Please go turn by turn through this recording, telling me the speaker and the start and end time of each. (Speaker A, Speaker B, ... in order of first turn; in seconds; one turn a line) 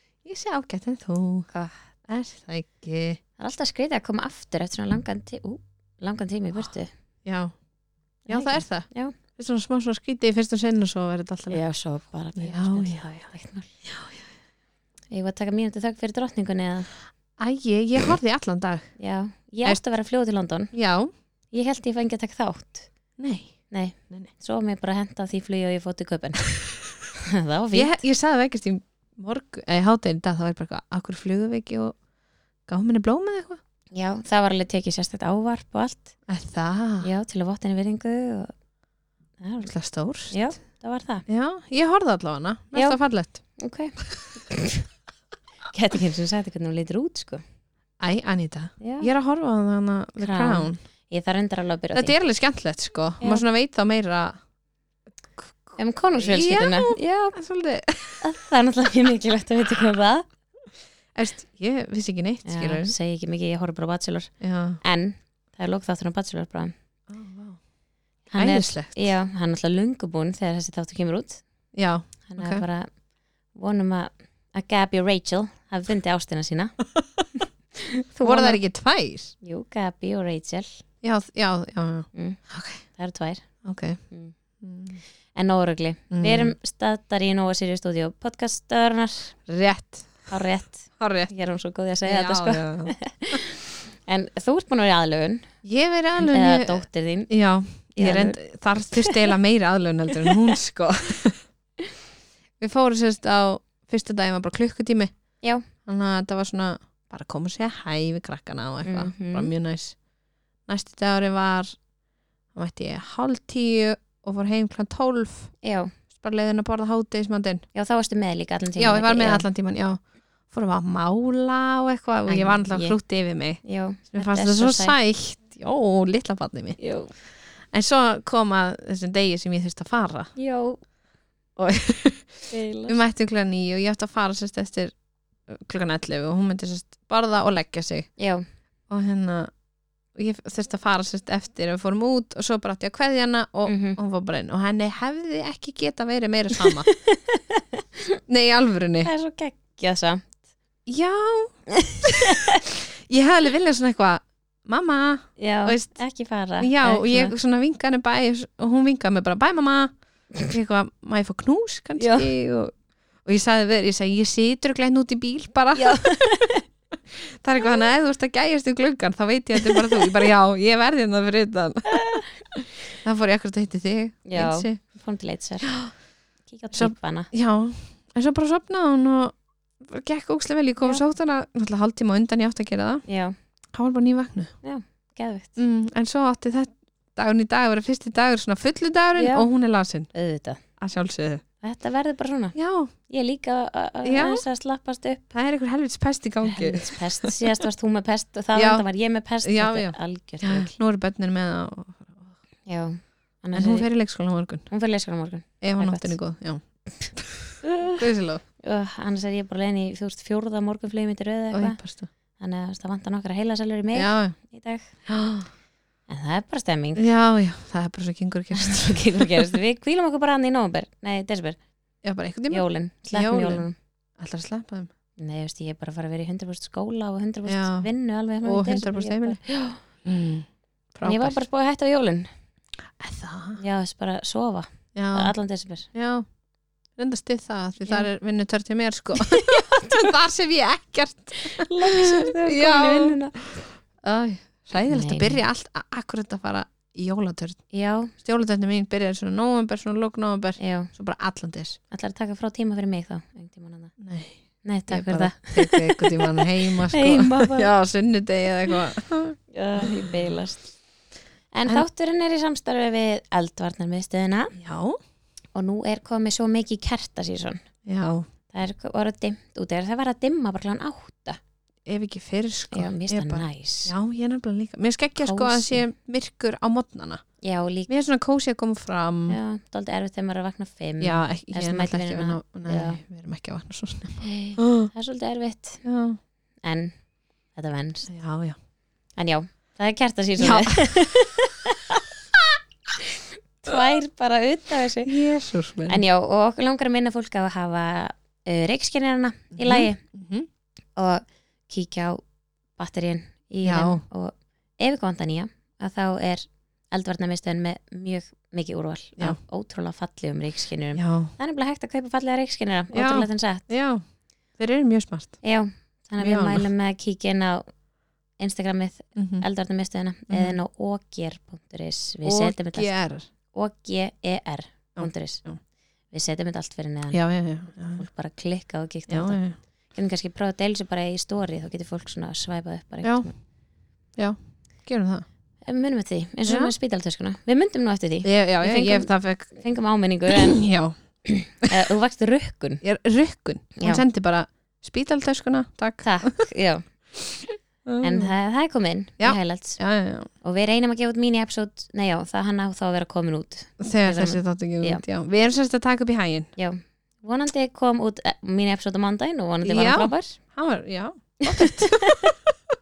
Speaker A: 0.2-1.5
Speaker B: 1.5-1.8
Speaker A: 2.1-3.2
Speaker B: 3.4-6.9
Speaker A: 7.2-7.5
Speaker A: 8.2-11.6
Speaker B: 8.3-9.1
Speaker B: 11.5-13.7
Speaker A: 12.4-13.1
Speaker A: 13.8-14.2
Speaker B: 15.1-16.9
Speaker A: 17.4-18.9
Speaker B: 19.0-20.7
Speaker A: 20.7-21.1
Speaker B: 21.5-22.9
Speaker A: 23.2-24.3
Speaker B: 23.7-26.7
Speaker B: 27.2-28.0
Speaker A: 27.7-32.0
Speaker A: 32.7-33.6
Speaker B: 33.9-36.1
Speaker A: 36.3-37.1
Speaker B: 37.0-38.5
Speaker B: 39.4-39.7
Speaker A: 39.6-40.5
Speaker B: 40.3-41.2
Speaker A: 41.3-43.4
Speaker B: 42.7-44.8
Speaker B: 45.7-47.4
Speaker A: 48.0-50.8
Speaker B: 48.8-49.1
Speaker B: 50.2-52.1
Speaker A: 51.9-54.4
Speaker A: 55.4-58.2
Speaker B: 55.8-57.4
Speaker B: 58.2-60.3
Speaker A: 61.1-62.9
Speaker B: 62.4-66.7
Speaker A: 64.4-64.8
Speaker A: 67.1-67.6
Speaker B: 68.3-71.7
Speaker A: 68.3-69.1
Speaker A: 71.7-72.6
Speaker B: 72.2-76.8
Speaker B: 77.8-78.6
Speaker A: 78.2-79.3
Speaker B: 79.4-80.8
Speaker A: 81.0-82.8
Speaker B: 82.1-84.3
Speaker A: 83.6-84.0
Speaker A: 84.6-85.0
Speaker B: 85.3-89.3
Speaker A: 86.1-86.5
Speaker A: 89.5-90.3
Speaker B: 90.3-95.6
Speaker A: 91.0-91.3
Speaker A: 92.0-93.4
Speaker A: 95.6-101.4
Speaker B: 96.2-99.1
Speaker A: 102.6-110.0
Speaker B: 108.8-109.5
Speaker A: 110.7-111.8
Speaker A: 112.5-115.5
Speaker B: 115.6-115.9
Speaker A: 116.1-117.6
Speaker B: 117.7-119.5
Speaker A: 118.8-130.3
Speaker B: 122.2-123.0
Speaker B: 123.6-125.0
Speaker B: 126.8-127.1
Speaker B: 130.3-130.8
Speaker A: 131.6-134.9
Speaker B: 132.5-133.0
Speaker A: 135.5-138.1
Speaker B: 138.2-138.4
Speaker A: 138.9-139.5
Speaker A: 140.1-146.9
Speaker B: 143.7-144.0
Speaker B: 146.9-148.2
Speaker A: 148.3-149.1
Speaker B: 149.0-150.3
Speaker A: 150.8-151.6
Speaker B: 151.8-152.6
Speaker A: 152.9-156.0
Speaker B: 155.4-157.3
Speaker A: 156.6-166.2
Speaker B: 162.0-162.3
Speaker B: 165.8-166.6
Speaker A: 167.2-172.0
Speaker A: 173.0-174.8
Speaker B: 174.2-175.8
Speaker A: 175.6-175.9
Speaker B: 176.4-177.3
Speaker A: 176.7-183.1
Speaker B: 183.1-183.3
Speaker A: 183.7-184.6
Speaker B: 184.6-185.6
Speaker A: 185.6-190.1
Speaker B: 189.2-189.5
Speaker B: 190.1-190.6
Speaker A: 190.8-191.4
Speaker B: 191.6-195.3
Speaker A: 192.5-192.9
Speaker A: 194.0-194.4
Speaker A: 195.3-197.3
Speaker B: 196.4-200.7
Speaker A: 198.5-198.9
Speaker A: 199.4-202.3
Speaker B: 202.7-203.9
Speaker A: 203.5-204.7
Speaker B: 204.7-206.2
Speaker A: 205.6-208.4
Speaker B: 207.6-208.0
Speaker B: 208.6-211.8
Speaker A: 211.5-212.1
Speaker B: 212.3-214.9
Speaker A: 213.9-214.3
Speaker A: 215.1-215.5
Speaker B: 216.1-217.0
Speaker A: 216.9-219.6
Speaker B: 218.6-221.6
Speaker A: 222.0-224.9
Speaker B: 222.5-223.7
Speaker B: 225.2-229.8
Speaker A: 227.4-227.9
Speaker A: 228.4-229.4
Speaker A: 230.0-231.4
Speaker B: 231.0-232.3
Speaker A: 233.0-233.6
Speaker B: 233.6-235.9
Speaker A: 234.9-236.2
Speaker A: 237.0-247.6
Speaker B: 239.3-240.0
Speaker B: 241.4-243.4
Speaker B: 244.8-245.4
Speaker B: 247.7-248.1
Speaker A: 248.1-251.8
Speaker B: 250.6-250.9
Speaker B: 251.9-253.9
Speaker A: 254.0-254.4
Speaker B: 254.6-257.7
Speaker A: 254.9-260.1
Speaker B: 259.5-260.7
Speaker B: 261.5-264.6
Speaker A: 264.6-265.0
Speaker B: 265.5-267.6
Speaker A: 267.9-268.2
Speaker B: 268.5-271.4
Speaker A: 271.9-277.2
Speaker B: 272.7-273.9
Speaker B: 275.2-275.8
Speaker B: 277.4-277.9
Speaker A: 277.9-279.4
Speaker B: 279.3-283.0
Speaker A: 281.0-284.9
Speaker B: 284.2-285.8
Speaker A: 285.8-286.2
Speaker B: 286.6-288.1
Speaker A: 288.1-288.6
Speaker B: 289.1-292.0
Speaker A: 290.4-291.1
Speaker B: 293.0-295.1
Speaker A: 295.1-296.0
Speaker B: 295.9-300.0
Speaker A: 299.6-300.5
Speaker B: 300.9-302.2
Speaker B: 302.7-313.6
Speaker A: 303.6-304.0
Speaker A: 310.9-311.3
Speaker A: 312.9-314.0
Speaker A: 314.6-315.4
Speaker B: 315.4-317.7
Speaker A: 316.2-316.6
Speaker B: 318.4-322.9
Speaker A: 319.1-319.4
Speaker A: 320.3-320.6
Speaker A: 322.2-323.3
Speaker B: 323.5-325.4
Speaker A: 324.9-325.6
Speaker B: 326.1-333.3
Speaker A: 327.1-328.1
Speaker A: 329.1-329.6
Speaker A: 333.0-333.3
Speaker A: 334.1-335.2
Speaker B: 335.6-340.7
Speaker A: 336.4-336.7
Speaker A: 338.2-339.5
Speaker A: 340.3-340.9
Speaker B: 341.2-342.8
Speaker A: 342.8-346.5
Speaker B: 343.8-344.0
Speaker B: 346.0-347.1
Speaker A: 347.9-348.3
Speaker B: 348.0-349.8
Speaker A: 349.2-350.3
Speaker B: 350.4-355.0
Speaker A: 353.8-356.5
Speaker B: 356.6-360.4
Speaker A: 359.6-362.0
Speaker B: 361.4-362.3